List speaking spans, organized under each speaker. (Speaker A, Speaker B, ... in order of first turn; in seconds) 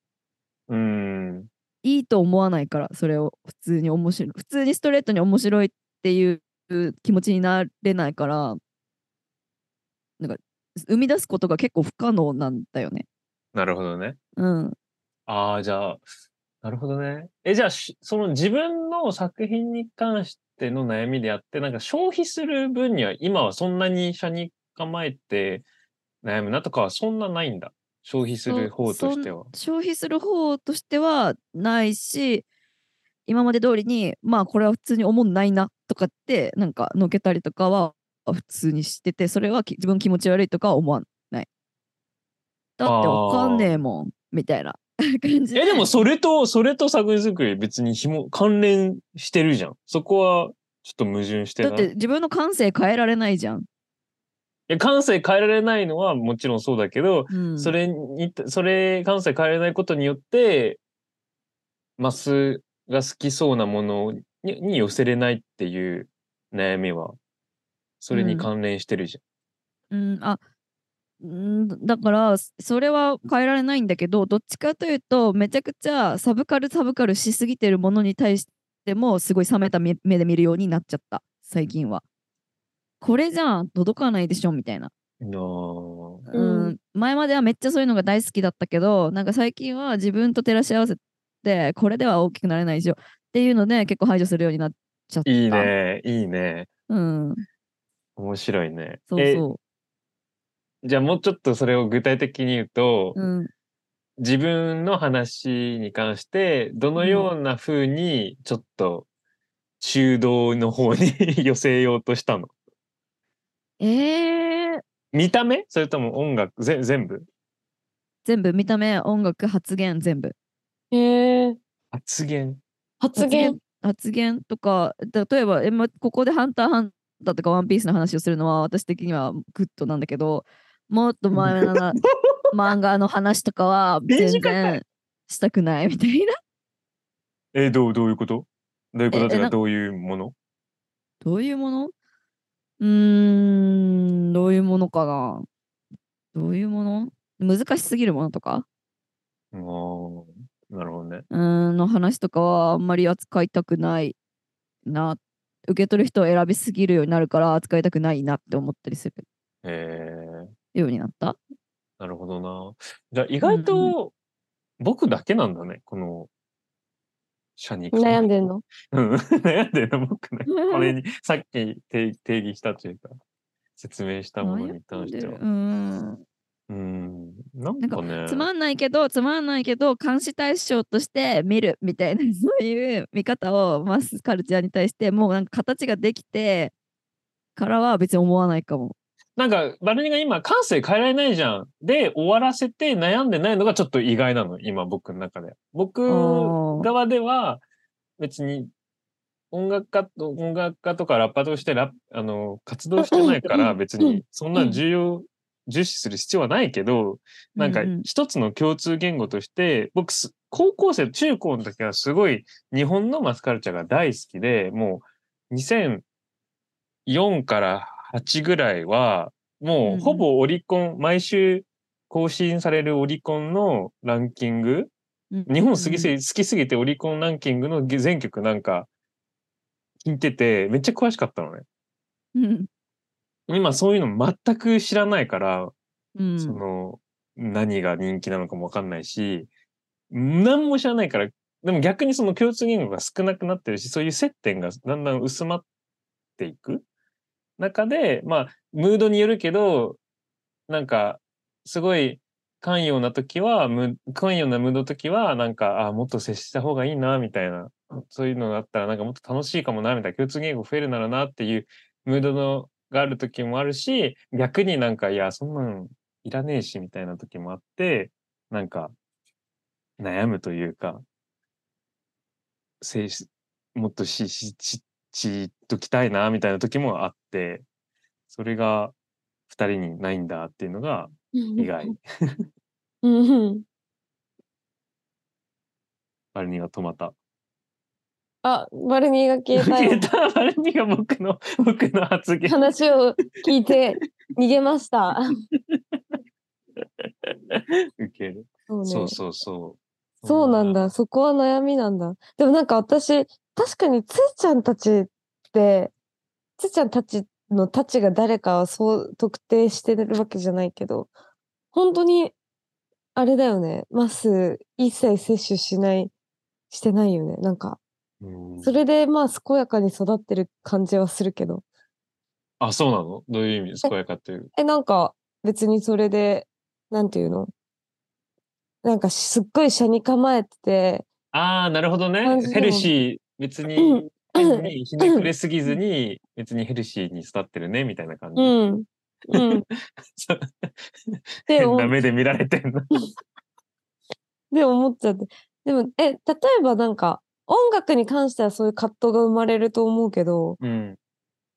Speaker A: 0.7-1.5, 13.5-14.2, 15.3-16.0, 16.6-25.6, 26.2-29.5, 42.8-43.7, 45.5-51.9, 54.7-60.8, 62.0-67.2, 68.0-69.2, 85.2-86.3, 95.2-96.7, 98.2-99.4, 100.8-103.2, 104.2-109.1, 109.8-112.5, 115.1-117.3, 121.9-122.6, 131.3-132.3, 134.1-134.8, 137.5-140.3, 149.5-151.2, 159.6-160.5, 162.0-164.1, 164.8-166.3, 167.6-168.3, 168.9-173.1, 173.8-175.4, 176.7-178.5, 189.4-197.6, 198.2-198.7, 199.5-216.0, 217.1-224.9, 225.5-228.9, 230.0-231.6, 233.5-235.7, 236.4-239.5, 240.1-245.6, 246.4-246.8, 247.6-250.0, 250.7-268.9, 270.0-271.0, 272.8-277.6, 278.3-278.9, 279.5-282.5, 286.3-287.1, 289.6-292.6, 295.6-296.0, 296.8-300.9, 318.2-318.8, 322.6-324.5, 331.3-338.5, 339.3-342.9, 350.6-351.0
Speaker B: 1.8-8.6, 10.2-13.0, 14.4-14.8, 28.5-32.4, 33.2-41.5, 42.8-45.9, 51.6-53.6, 57.3-57.7, 68.1-68.5, 69.9-70.4, 71.2-82.0, 83.0-84.9, 86.3-95.7, 96.9-97.4, 99.1-99.6, 103.1-103.5, 107.0-107.3, 113.8-114.8, 118.2-120.3, 123.2-132.0, 132.5-136.3, 139.1-139.5, 141.2-141.9, 142.8-145.5, 146.3-148.7, 151.3-154.2, 154.8-159.2, 160.7-161.4, 163.4-163.9, 174.4-176.2, 177.8-186.7, 187.6-188.9, 196.1-196.9, 207.6-208.1, 219.8-220.2, 225.3-226.1, 232.3-232.7, 236.2-236.6
Speaker C: 86.3-86.7, 120.9-121.6, 123.0-123.6, 167.9-168.6, 203.0-204.2, 281.3-281.9, 283.0-283.6, 288.4-290.1, 292.4-295.4, 298.7-299.2, 300.2-305.9, 306.6-311.1, 311.7-312.3, 313.1-316.1, 316.7-317.8, 318.6-321.6, 324.6-327.5, 328.8-331.1, 332.2-332.9, 333.8-335.3, 338.4-339.6, 341.5-341.9, 344.5-350.6